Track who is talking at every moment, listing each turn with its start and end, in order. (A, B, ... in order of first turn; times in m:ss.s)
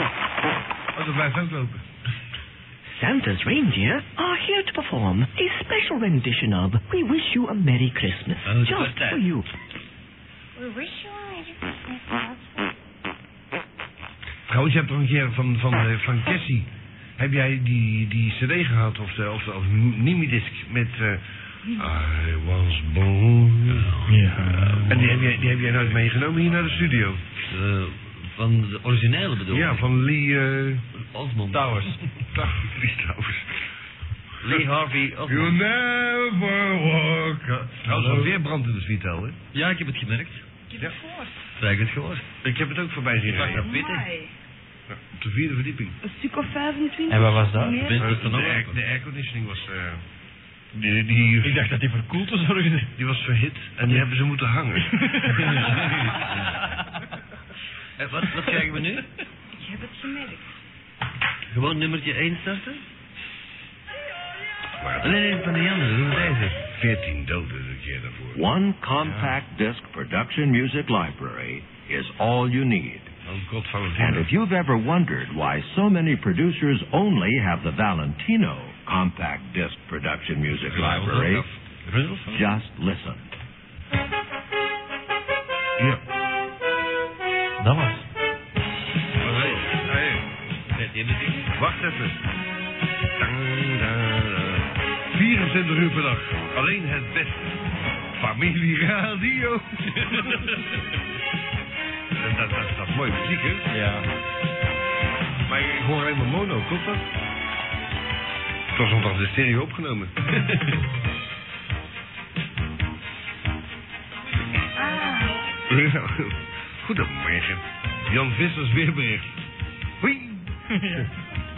0:00.9-0:01.8 A
0:02.9-0:09.5 B
0:08.4-0:09.2 C
0:10.6-0:12.7 D
0:14.5-0:23.9 A
0:23.7-0:25.9 C
0:24.0-0:25.2 E
0:24.8-0:27.2 A
0:27.4-0:29.9 C
0:29.5-0:30.8 A
0:30.9-0:32.0 C
0:31.5-0:32.0 E
0:32.3-0:33.6 A
0:34.4-0:35.6 C
0:35.3-0:39.4 A
0:37.8-0:38.3 C
0:39.5-0:40.4 C
0:40.7-0:41.4 D
0:41.6-0:42.3 C
0:42.4-0:43.8 A
0:43.3-0:44.0 C
0:43.5-0:44.3 D
0:44.9-0:46.0 A
0:46.0-0:48.1 D
0:47.1-0:47.9 E
0:47.8-0:48.8 C
0:47.9-0:50.0 A
0:50.7-0:51.7 A
0:51.4-0:52.9 E
0:53.0-0:56.4 A
0:54.9-0:56.0 E
0:55.5-0:56.6 C
0:58.0-0:59.1 C
0:59.5-1:00.4 D
1:01.5-1:02.8 C
1:04.8-1:08.4 A
1:05.0-1:06.6 C
1:08.3-1:13.1 F
1:09.0-1:09.3 E
1:13.2-1:14.3 A
1:14.0-1:21.5 F
1:20.7-1:22.6 C
1:22.3-1:23.2 F
1:27.6-1:28.0 E
1:29.2-1:30.2 A
1:29.2-1:29.8 C
1:30.7-1:31.5 C
1:31.5-1:32.2 A
1:33.1-1:40.6 A
1:40.1-1:40.6 C
1:42.1-1:43.7 A
1:43.7-1:44.1 E
1:45.5-1:47.0 A
1:48.7-1:50.1 A
1:54.7-1:55.5 D
1:55.7-1:59.3 A
2:00.0-2:01.1 E